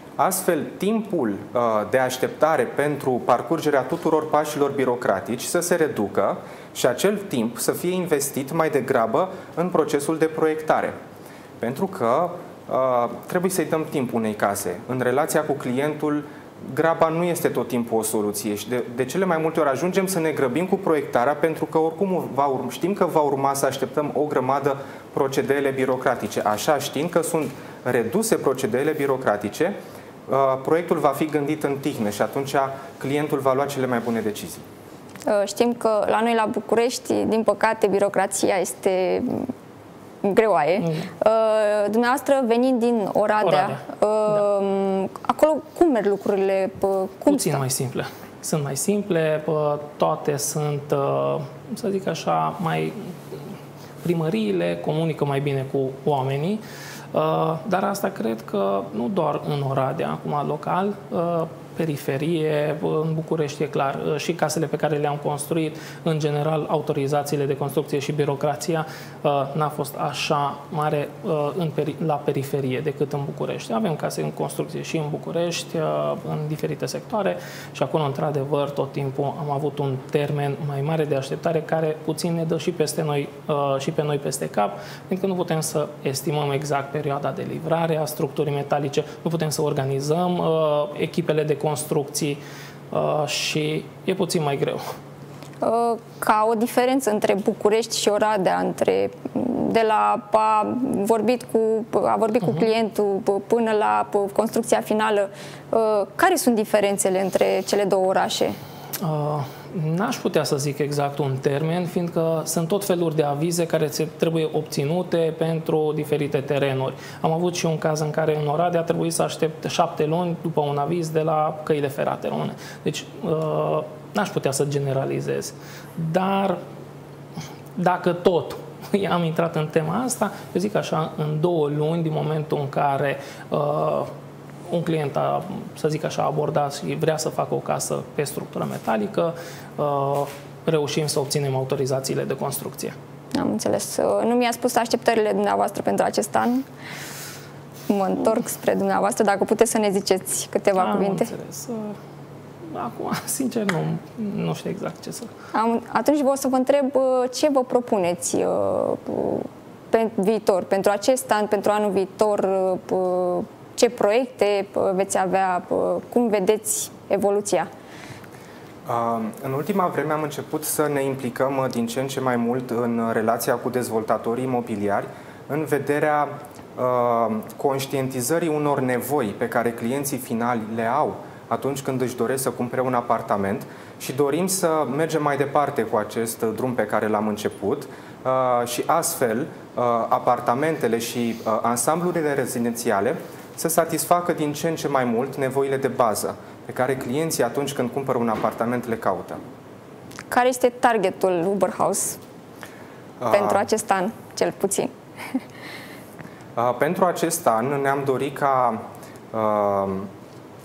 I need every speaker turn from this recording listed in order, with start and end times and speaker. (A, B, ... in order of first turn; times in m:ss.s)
0:00.2-0:11.0 A
0:11.6-0:34.6 A
0:35.3-0:39.5 B
0:40.2-0:47.6 B
0:40.8-0:41.1 C
0:43.4-0:43.8 C
0:47.3-0:53.4 C
0:54.0-0:56.6 C
0:57.1-1:34.8 C
1:35.6-1:48.6 B
1:49.0-2:06.6 C
2:07.8-2:14.1 C
2:14.7-2:23.0 C
2:23.4-2:26.6 B
2:27.9-2:31.3 B
2:30.8-2:32.0 C
2:32.7-2:35.3 C
2:35.5-2:47.7 B
2:48.9-3:19.4 A
3:20.3-3:22.2 B
3:23.2-3:23.7 A
3:23.3-3:25.4 B
3:26.6-3:30.1 A